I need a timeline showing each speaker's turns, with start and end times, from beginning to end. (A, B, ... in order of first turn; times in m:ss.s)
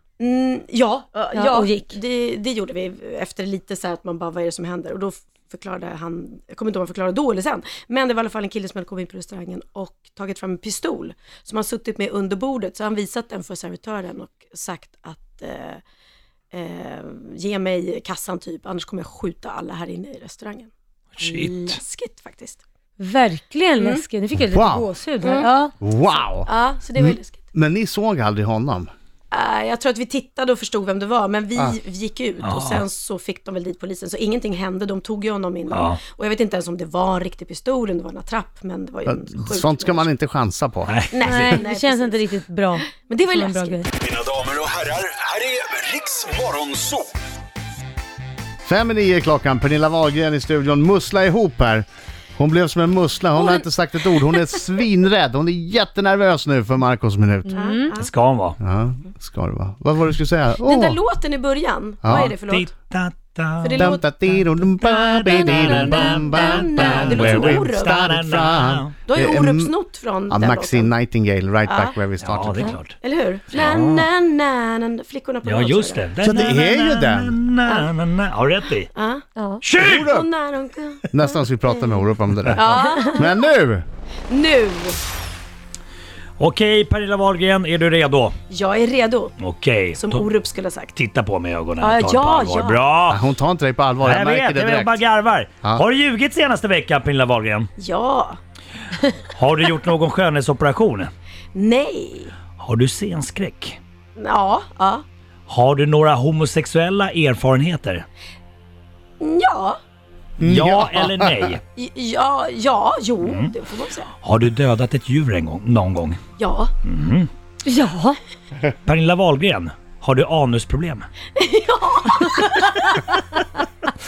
0:00.2-0:15.8 A
0:01.3-0:01.9 B
0:16.5-0:20.7 A
0:21.1-0:21.8 C
0:21.2-0:22.6 A
0:23.0-0:25.7 B
0:23.8-0:24.0 A
0:24.5-0:24.9 D
0:25.2-0:25.5 A
0:25.8-0:28.9 D
0:26.4-0:27.4 A
0:29.3-0:40.1 A
0:32.4-0:32.8 C
0:35.7-0:36.0 C
0:39.0-0:41.0 D
0:40.8-0:41.6 C
0:41.1-0:43.9 A
0:41.2-0:43.9 B
0:44.0-0:47.1 E
0:48.6-0:51.8 D
0:52.4-0:57.5 D
0:57.4-0:57.9 B
0:57.5-0:58.1 A
0:58.0-0:58.6 C
0:58.6-1:01.0 D
1:00.6-1:02.7 A
1:02.0-1:02.3 D
1:02.0-1:08.9 C
1:03.6-1:04.0 A
1:03.8-1:09.7 D
1:05.3-1:08.0 A
1:09.0-1:10.9 A
1:10.3-1:12.8 D
1:11.7-1:11.9 A
1:12.2-1:13.0 C
1:13.0-1:16.1 A
1:13.5-1:14.0 C
1:15.4-1:18.9 C
1:16.2-1:17.4 D
1:17.6-1:17.9 A
1:18.9-1:19.2 A
1:19.4-1:19.6 B
1:19.6-1:20.1 C
1:19.8-1:20.3 D
1:19.9-1:21.8 A
1:21.1-1:23.8 D
1:22.5-1:23.3 A
1:24.3-1:25.0 A
1:26.4-1:28.4 C
1:28.5-1:29.4 A
1:29.4-1:30.2 C
1:29.9-1:30.9 A
1:30.9-1:33.2 C
1:31.8-1:32.8 A
1:33.1-1:35.0 D
1:34.0-1:37.7 C
1:37.8-1:38.4 A
1:39.3-1:41.1 C
1:41.5-1:42.3 A
1:42.6-1:43.8 C
1:44.2-1:45.0 A
1:45.5-1:48.0 C
1:49.2-1:49.8 A
1:50.4-1:51.5 D
1:50.4-1:51.6 C
1:51.8-1:54.1 A
1:53.2-1:53.5 C
1:54.2-1:56.2 C
1:56.4-1:56.7 A
1:56.8-1:57.3 C
1:57.6-1:58.2 B
1:58.8-2:01.0 C
2:01.4-2:02.9 A